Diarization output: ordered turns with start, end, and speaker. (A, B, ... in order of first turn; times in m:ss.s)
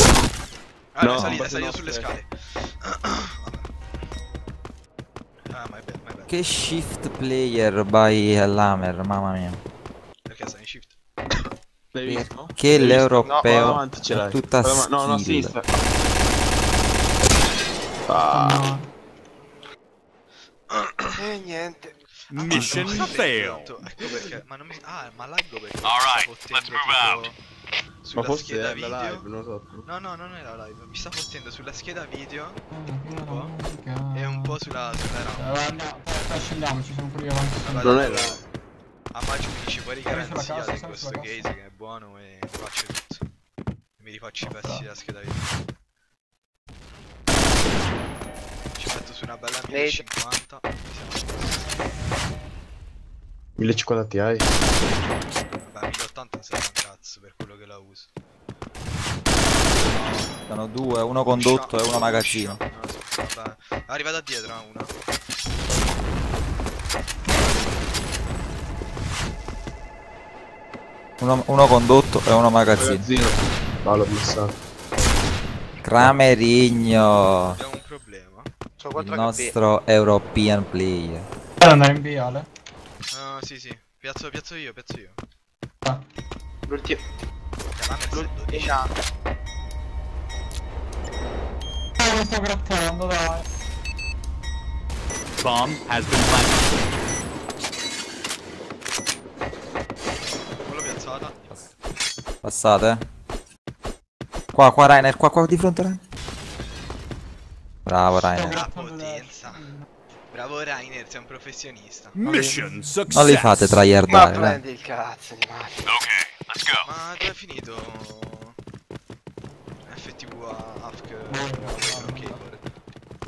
0:00.9-0:03.7 A
0:01.0-0:02.1 B
0:05.5-0:06.4 A
0:06.3-0:09.6 C
0:10.3-0:11.0 A
0:11.9-0:16.1 B
0:12.1-0:15.6 C
0:13.0-0:13.3 A
0:13.2-0:13.8 D
0:18.1-0:18.8 B
0:18.3-0:18.9 E
0:20.7-0:21.2 A
0:21.2-0:22.0 D
0:22.3-0:27.4 A
0:22.3-0:23.7 F
0:22.5-0:23.1 D
0:25.9-0:27.3 F
0:28.0-0:29.3 A
0:28.2-0:29.8 B
0:29.8-0:32.6 A
0:32.7-0:34.7 E
0:33.3-0:33.5 A
0:34.1-0:35.5 A
0:35.3-0:38.0 E
0:37.6-0:38.4 A
0:37.8-0:38.4 B
0:39.1-0:43.2 A
0:40.1-0:41.5 E
0:44.0-0:45.5 A
0:44.4-0:44.8 E
0:48.8-0:51.8 A
0:49.7-0:50.0 D
0:53.6-0:54.5 B
0:55.5-0:58.1 A
0:59.4-1:00.4 A
1:00.5-1:02.6 C
1:01.3-1:04.9 A
1:11.2-1:13.1 C
1:12.8-1:14.6 B
1:15.8-1:17.6 C
1:17.5-1:18.5 A
1:18.8-1:19.6 D
1:19.0-1:21.3 C
1:21.6-1:22.5 E
1:23.1-1:25.2 A
1:26.7-1:27.0 D
1:27.8-1:28.9 A
1:28.1-1:28.9 D
1:32.0-1:33.4 E
1:35.4-1:36.9 F
1:40.6-1:41.7 A
1:42.4-1:43.0 C
1:44.5-1:46.0 C
1:47.9-1:48.6 C
1:48.3-1:49.9 E
1:48.4-1:49.7 A
1:50.3-1:52.1 A
1:52.1-1:53.8 F
1:52.2-1:52.9 E
1:53.1-1:54.6 C
1:54.1-1:55.9 D
1:55.9-1:56.9 F
1:56.8-1:58.6 A
1:59.8-2:02.6 A
2:01.3-2:02.4 E